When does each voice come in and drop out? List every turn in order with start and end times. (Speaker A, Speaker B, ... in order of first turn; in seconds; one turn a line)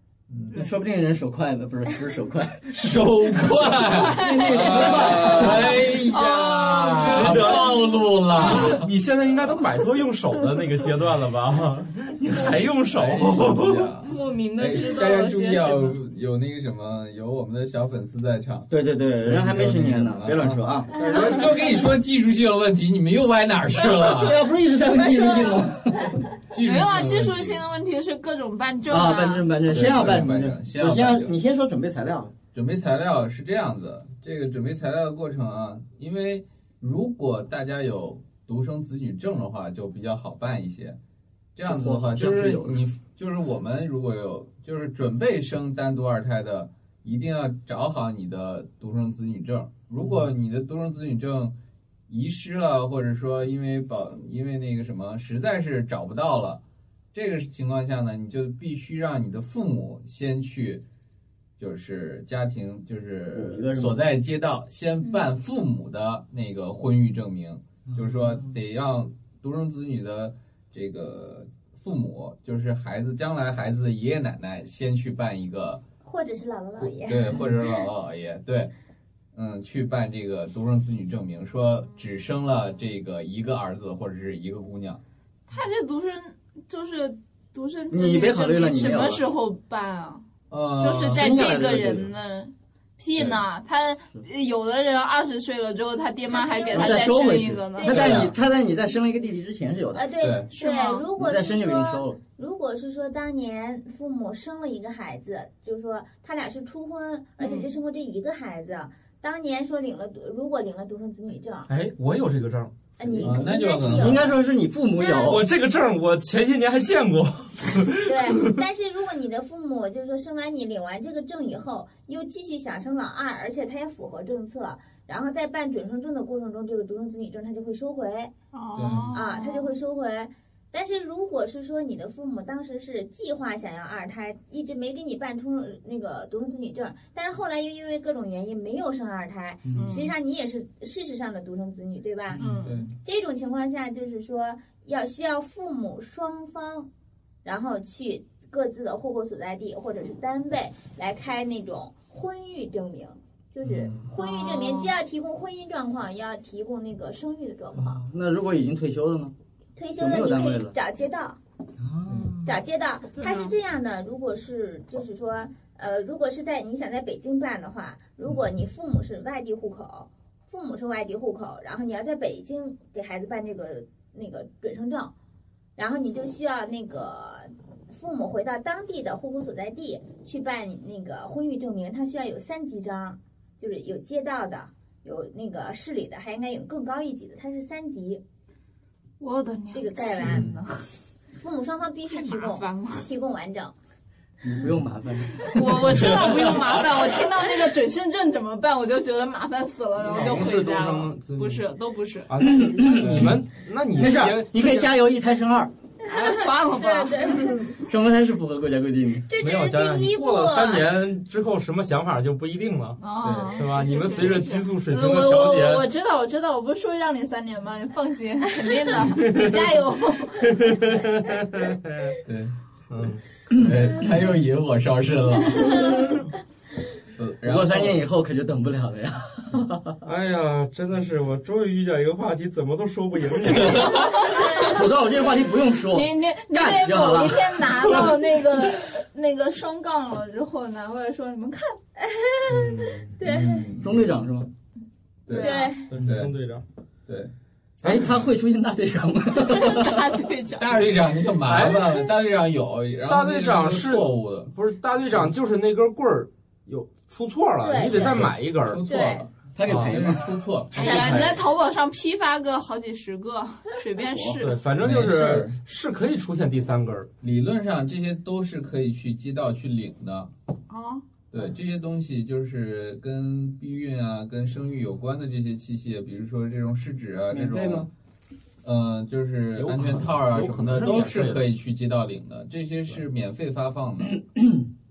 Speaker A: 0.3-0.7
Speaker B: 0.5-5.8
Speaker A: 2.7-8.9
Speaker C: 3.9-7.9
Speaker D: 4.6-5.8
Speaker D: 7.0-7.8
Speaker D: 8.4-13.9
Speaker A: 12.9-24.4
Speaker C: 14.0-16.0
Speaker B: 18.7-20.9
Speaker D: 21.0-21.4
Speaker B: 24.0-26.2
Speaker C: 25.0-25.6
Speaker A: 26.5-27.6
Speaker C: 26.6-29.5
Speaker B: 28.9-32.3
Speaker A: 29.7-31.4
Speaker A: 32.5-41.0
Speaker A: 41.5-51.5
Speaker B: 41.6-42.8
Speaker A: 52.1-56.6
Speaker A: 57.1-60.8
Speaker A: 61.6-75.8
Speaker B: 63.3-64.0
Speaker B: 68.0-68.5
Speaker E: 76.0-77.9
Speaker A: 76.8-78.7
Speaker A: 79.3-85.0
Speaker C: 85.5-90.2
Speaker B: 87.9-89.2
Speaker A: 90.5-91.3
Speaker C: 90.8-98.2
Speaker B: 91.1-92.1
Speaker A: 93.1-93.4
Speaker E: 96.3-97.1
Speaker B: 96.7-100.1
Speaker E: 97.7-98.2
Speaker A: 97.9-98.3
Speaker E: 99.9-111.7
Speaker A: 100.2-100.5
Speaker C: 100.5-101.0
Speaker B: 101.1-102.2
Speaker C: 107.4-107.7
Speaker D: 111.7-112.8
Speaker E: 113.0-114.3
Speaker B: 113.0-113.4
Speaker A: 113.2-114.4
Speaker B: 113.9-115.5
Speaker E: 115.0-115.4
Speaker D: 115.2-118.6
Speaker E: 118.0-128.3
Speaker C: 128.5-129.7
Speaker A: 128.7-129.2
Speaker E: 129.1-142.4
Speaker B: 139.6-140.1
Speaker C: 139.7-140.1
Speaker C: 142.3-142.8
Speaker A: 142.6-142.9
Speaker E: 143.0-146.9
Speaker E: 147.4-158.0
Speaker A: 153.6-154.1
Speaker C: 154.2-154.9
Speaker B: 157.7-159.3
Speaker E: 159.8-161.4
Speaker B: 159.9-160.7
Speaker B: 161.8-162.5
Speaker A: 162.1-162.3
Speaker E: 162.4-175.1
Speaker C: 163.1-163.5
Speaker E: 175.8-188.2
Speaker C: 189.2-190.8
Speaker E: 189.7-190.5
Speaker A: 190.2-190.6
Speaker E: 191.3-193.7
Speaker C: 192.1-193.1
Speaker B: 194.4-196.2
Speaker C: 195.4-202.3
Speaker D: 200.0-201.6
Speaker D: 202.3-204.9
Speaker B: 202.4-203.4
Speaker B: 203.9-205.7
Speaker E: 206.0-207.8
Speaker C: 206.0-207.7
Speaker B: 207.8-209.3
Speaker E: 209.3-211.0
Speaker D: 209.4-213.0
Speaker C: 213.0-220.8
Speaker A: 213.2-213.5
Speaker D: 213.5-215.8
Speaker D: 219.2-219.6
Speaker D: 220.4-222.2
Speaker A: 222.2-222.5
Speaker D: 222.9-223.2
Speaker A: 223.5-226.0
Speaker A: 227.1-228.0
Speaker B: 227.4-230.0
Speaker D: 230.0-234.0
Speaker C: 233.9-234.7
Speaker B: 234.3-237.7
Speaker C: 235.9-241.8
Speaker E: 242.0-243.7
Speaker D: 242.5-243.2
Speaker A: 243.2-244.1
Speaker B: 243.8-244.5
Speaker A: 245.2-246.3
Speaker C: 245.3-245.8
Speaker E: 245.3-245.9
Speaker D: 245.9-246.6
Speaker A: 247.1-247.3
Speaker B: 247.8-250.1
Speaker D: 247.8-248.1
Speaker C: 249.4-251.1
Speaker A: 250.6-254.5
Speaker D: 251.4-252.0
Speaker D: 253.1-258.8
Speaker E: 257.6-258.3
Speaker A: 257.9-261.4
Speaker E: 258.8-259.3
Speaker B: 259.5-261.2
Speaker D: 259.6-260.0
Speaker C: 260.8-264.6
Speaker B: 264.1-264.4
Speaker D: 264.3-267.1
Speaker A: 264.8-265.6
Speaker A: 267.2-270.3
Speaker C: 270.7-271.0
Speaker A: 271.3-277.9
Speaker B: 277.3-277.9
Speaker A: 278.6-284.2
Speaker D: 279.6-281.4
Speaker B: 284.1-284.7